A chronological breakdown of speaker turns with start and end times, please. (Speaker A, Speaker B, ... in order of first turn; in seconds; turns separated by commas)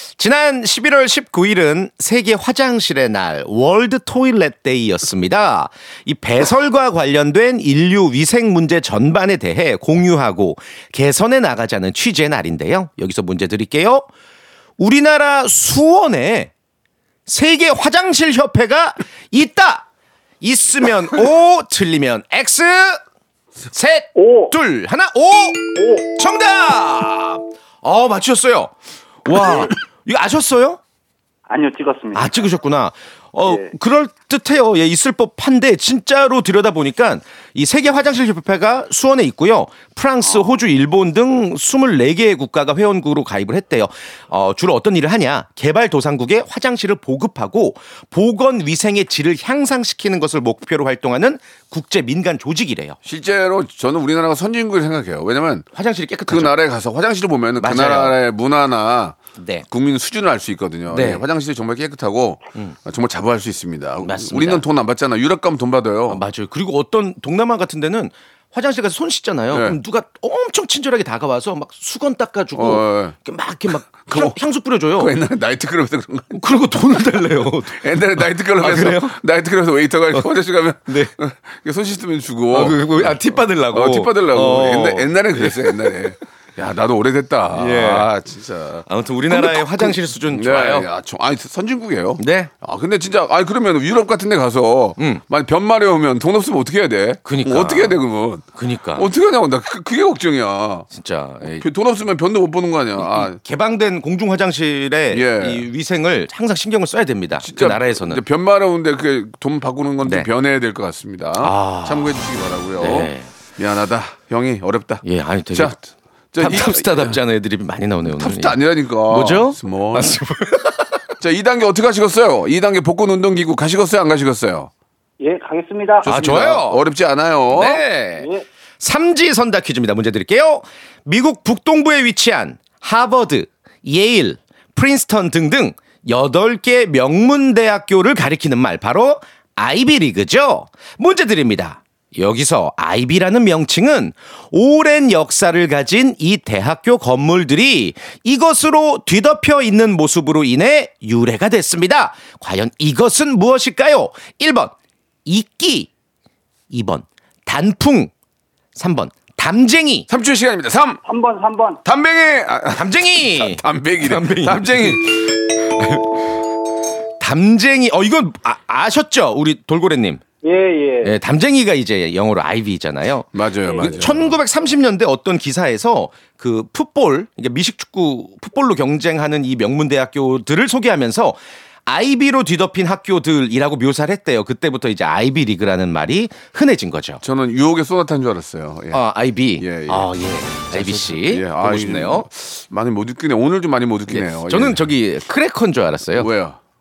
Speaker A: 0.2-14.1, Speaker A: 14.8-16.5, Speaker A: 17.3-19.9, Speaker A: 20.4-23.0, Speaker A: 23.7-28.7, Speaker B: 24.1-24.5, Speaker B: 25.7-26.1, Speaker A: 29.2-30.8, Speaker B: 29.3-29.7, Speaker B: 31.5-32.4, Speaker A: 32.1-53.0, Speaker B: 33.5-33.7, Speaker C: 53.0-55.7, Speaker A: 55.7-56.5, Speaker C: 56.3-59.2, Speaker A: 57.6-58.2, Speaker A: 59.4-59.6, Speaker C: 59.7-66.2, Speaker A: 60.9-61.2, Speaker A: 64.0-64.6, Speaker A: 66.1-75.2, Speaker C: 69.5-69.8, Speaker C: 72.5-73.2, Speaker C: 74.0-74.4, Speaker C: 74.9-76.4, Speaker A: 76.3-77.8, Speaker C: 77.7-100.9, Speaker A: 78.5-79.2, Speaker A: 80.9-81.1, Speaker A: 82.5-86.0, Speaker A: 87.5-88.1, Speaker A: 88.9-90.9, Speaker A: 92.2-92.5, Speaker A: 97.2-98.0, Speaker A: 98.5-99.1, Speaker A: 100.9-101.7, Speaker C: 101.5-103.4, Speaker A: 103.0-108.2, Speaker C: 105.1-105.7, Speaker C: 107.4-115.8, Speaker A: 111.4-112.2, Speaker A: 112.8-113.3, Speaker A: 115.0-115.8, Speaker C: 116.3-117.2, Speaker A: 116.4-121.0, Speaker C: 118.0-120.2, Speaker C: 121.2-124.7, Speaker B: 125.2-126.5, Speaker C: 126.0-127.8, Speaker A: 126.0-126.8, Speaker A: 127.5-128.3, Speaker B: 128.2-128.4, Speaker A: 128.8-154.7, Speaker A: 155.2-155.9, Speaker A: 156.7-158.1, Speaker A: 158.7-160.1, Speaker C: 160.1-161.0, Speaker B: 161.0-161.8, Speaker C: 161.8-165.3, Speaker A: 162.8-166.2, Speaker A: 167.2-170.2, Speaker B: 170.4-171.1, Speaker A: 171.0-187.2, Speaker C: 173.3-174.4, Speaker C: 187.2-189.0, Speaker A: 188.9-192.3, Speaker C: 189.6-190.1, Speaker C: 190.6-194.9, Speaker A: 194.1-196.3, Speaker C: 196.1-196.6